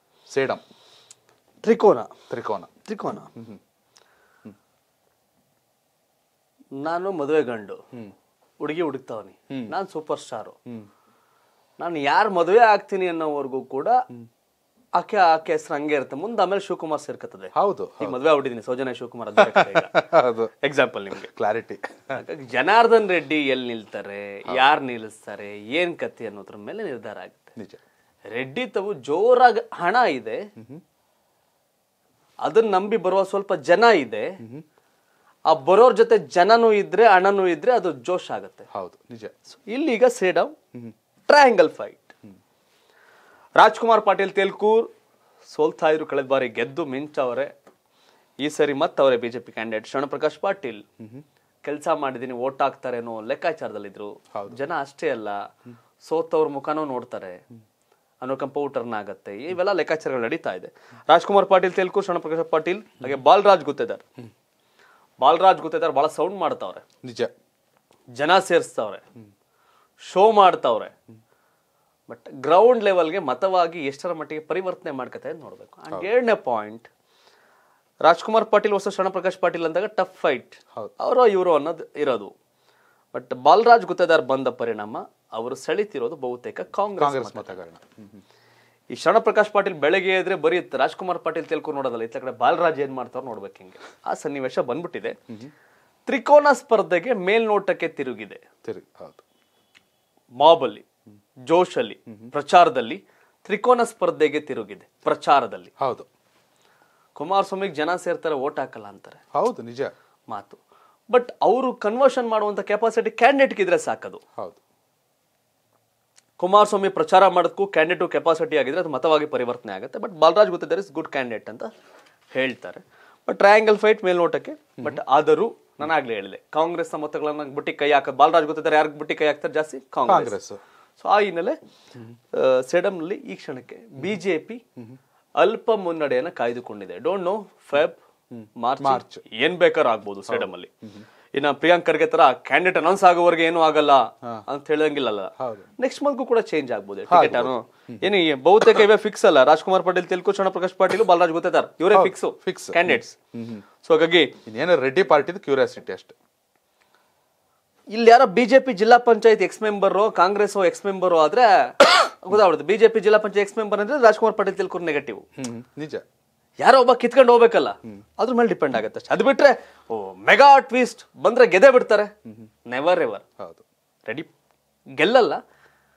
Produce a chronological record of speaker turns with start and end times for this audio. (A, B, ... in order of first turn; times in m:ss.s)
0:00.3-0:00.6 A
0:01.6-0:02.1 B
0:02.3-0:02.7 A
0:02.9-0:03.3 B
0:06.8-0:07.8 B
0:08.6-0:10.6 B
0:11.8-0:14.0 B
0:15.0-0:20.0 B
0:17.5-0:18.2 A
0:19.4-0:20.5 A
0:20.6-0:21.3 B
0:21.3-0:22.2 A
0:22.2-0:27.5 B
0:27.6-0:27.8 A
0:28.3-0:30.5 B
0:32.4-0:34.4 B
0:35.5-0:38.7 B
0:38.7-0:39.3 A
0:39.5-0:40.6 B
0:41.3-0:42.1 B
0:43.6-0:44.9 B
0:45.5-0:47.5 B
0:48.4-0:50.8 B
0:51.6-0:55.5 B
0:54.3-0:54.6 A
0:56.0-0:57.4 B
0:58.2-1:04.0 B
1:05.2-1:06.8 B
1:07.0-1:07.3 A
1:08.2-1:09.0 B
1:10.0-1:10.9 B
1:12.1-1:16.9 B
1:18.0-1:22.3 B
1:23.1-1:27.6 B
1:27.0-1:28.2 A
1:28.9-1:35.2 B
1:36.0-1:38.4 B
1:38.6-1:39.2 A
1:40.4-1:40.8 B
1:41.5-1:45.7 B
1:45.8-1:46.1 A
1:47.2-1:49.2 B
1:49.3-1:49.9 A
1:50.3-1:54.2 B
1:56.4-2:01.7 B
2:02.3-2:10.4 B
2:10.0-2:10.6 A
2:11.0-2:11.6 B
2:12.3-2:14.6 B
2:15.4-2:18.0 B
2:18.3-2:19.2 A
2:18.6-2:20.7 B
2:20.3-2:21.0 A
2:21.3-2:33.2 B
2:25.4-2:25.7 A
2:27.1-2:28.0 A
2:31.9-2:33.6 A
2:33.8-2:34.3 B
2:34.4-2:36.2 A
2:37.9-2:45.2 B
2:45.4-2:46.0 A
2:46.6-2:52.1 B
2:52.7-2:53.2 B
2:53.4-2:53.6 A
2:55.0-2:55.4 B